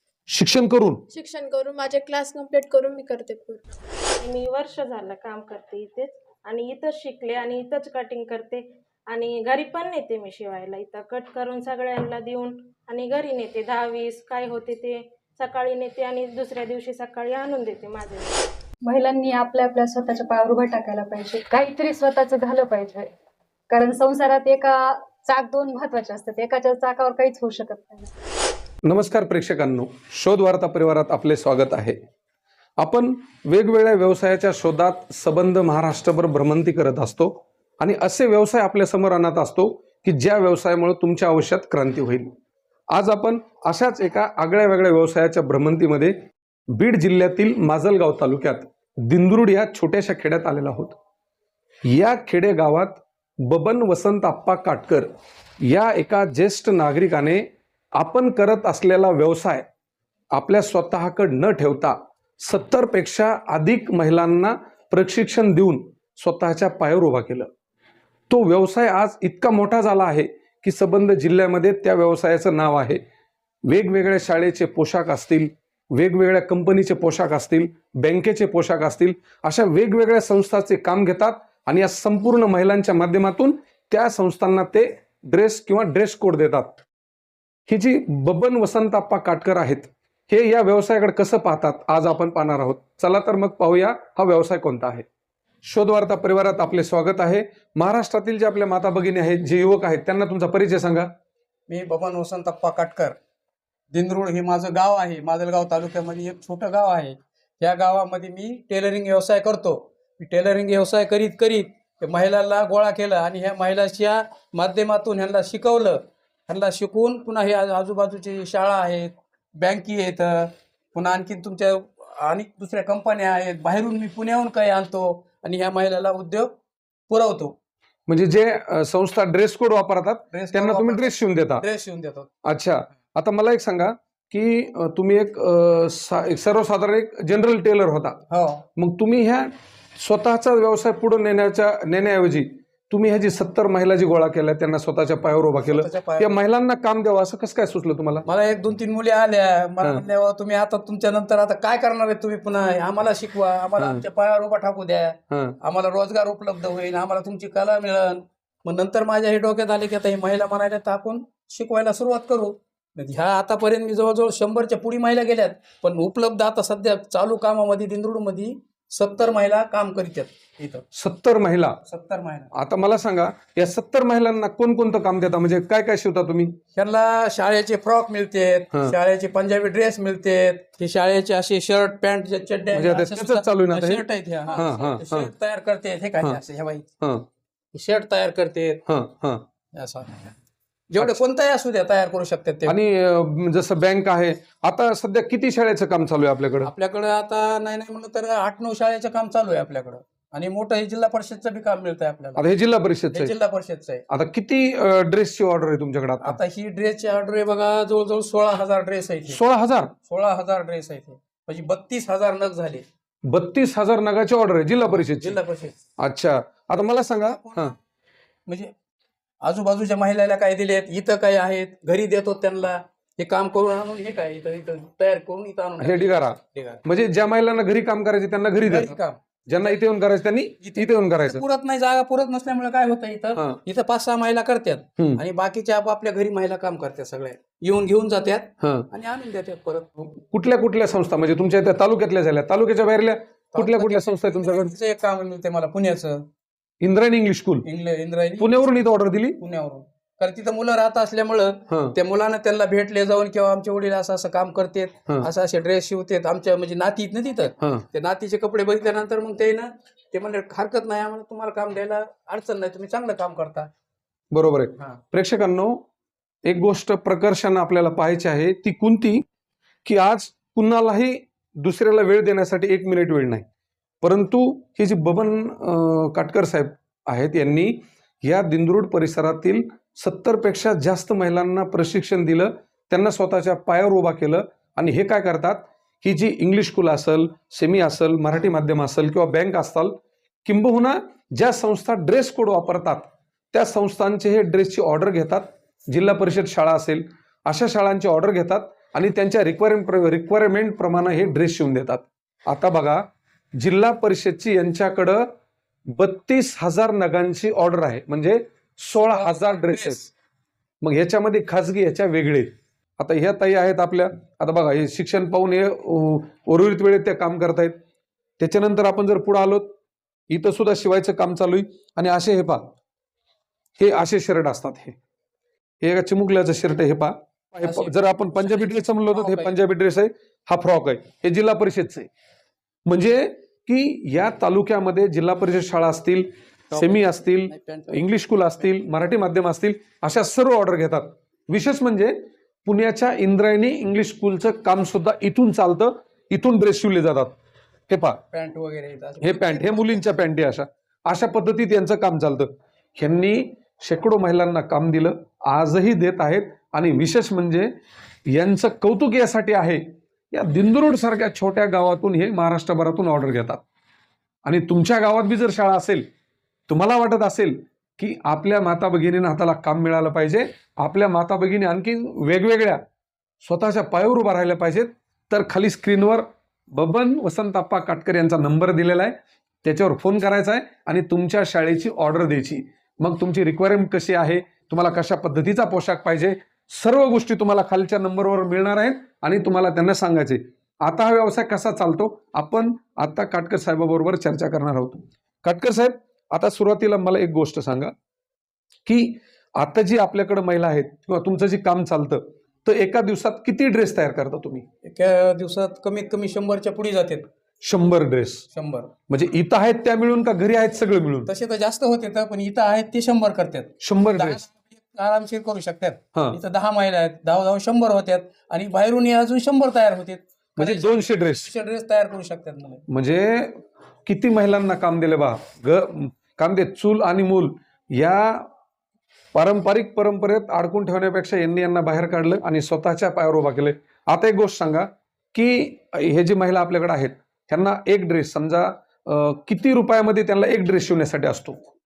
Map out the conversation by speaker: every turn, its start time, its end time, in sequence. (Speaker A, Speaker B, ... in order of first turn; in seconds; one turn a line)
Speaker A: 0.3-1.0
Speaker B: 1.1-3.7
Speaker C: 4.2-18.4
Speaker D: 18.8-23.1
Speaker D: 23.7-28.1
Speaker A: 28.9-31.9
Speaker A: 32.8-42.3
Speaker A: 42.9-46.1
Speaker A: 46.7-51.0
Speaker A: 51.9-55.1
Speaker A: 55.6-59.6
Speaker A: 60.3-67.5
Speaker A: 68.3-73.0
Speaker A: 73.7-86.8
Speaker A: 87.7-95.0
Speaker A: 95.6-101.1
Speaker E: 101.7-103.2
Speaker E: 103.9-126.5
Speaker E: 127.1-127.5
Speaker A: 128.1-131.7
Speaker E: 130.3-132.3
Speaker A: 132.4-138.2
Speaker E: 138.3-138.6
Speaker A: 138.8-148.2
Speaker E: 145.6-146.3
Speaker E: 148.2-170.8
Speaker A: 153.8-154.0
Speaker A: 155.3-155.6
Speaker A: 170.9-171.8
Speaker E: 171.9-172.5
Speaker A: 172.5-176.6
Speaker E: 176.7-186.8
Speaker A: 182.7-185.3
Speaker A: 187.0-187.3
Speaker E: 187.7-188.8
Speaker A: 188.8-189.4
Speaker E: 189.7-190.3
Speaker E: 190.9-192.8
Speaker A: 192.7-196.7
Speaker E: 196.7-202.4
Speaker A: 202.3-203.3
Speaker E: 203.1-204.0
Speaker A: 204.1-206.4
Speaker E: 206.2-209.4
Speaker A: 209.3-209.9
Speaker E: 210.0-212.8
Speaker A: 213.3-215.4
Speaker E: 214.9-215.8
Speaker A: 216.0-217.7
Speaker E: 216.7-217.8
Speaker E: 218.5-218.7
Speaker E: 219.4-226.8
Speaker A: 225.8-229.0
Speaker E: 228.6-229.7
Speaker A: 229.5-231.4
Speaker E: 230.6-240.0
Speaker A: 233.3-233.6
Speaker A: 235.0-235.2
Speaker A: 238.6-238.9
Speaker A: 240.1-244.8
Speaker E: 243.5-246.2
Speaker A: 246.8-247.7
Speaker E: 247.6-248.7
Speaker A: 248.4-249.4
Speaker E: 249.4-263.7
Speaker A: 251.7-252.0
Speaker A: 257.6-257.8
Speaker A: 264.3-265.8
Speaker A: 266.4-269.2
Speaker A: 269.8-273.4
Speaker A: 274.0-305.3
Speaker A: 305.9-310.0
Speaker E: 309.1-310.0
Speaker A: 310.8-317.8
Speaker A: 318.4-319.7
Speaker A: 320.3-322.7
Speaker A: 323.8-324.9
Speaker A: 325.8-332.1
Speaker E: 327.6-329.5
Speaker A: 332.9-347.3
Speaker E: 336.7-338.7
Speaker A: 347.9-348.2
Speaker E: 348.3-350.1
Speaker A: 349.2-357.7
Speaker A: 358.3-363.6
Speaker A: 364.4-366.1
Speaker A: 366.7-372.8
Speaker A: 373.4-397.9
Speaker A: 398.9-404.6
Speaker E: 404.8-407.3
Speaker A: 407.6-408.4
Speaker E: 408.5-408.9
Speaker A: 409.1-411.3
Speaker E: 411.3-422.8
Speaker A: 413.8-414.4
Speaker A: 416.1-416.4
Speaker A: 420.6-421.5
Speaker A: 422.9-428.5
Speaker A: 429.3-441.7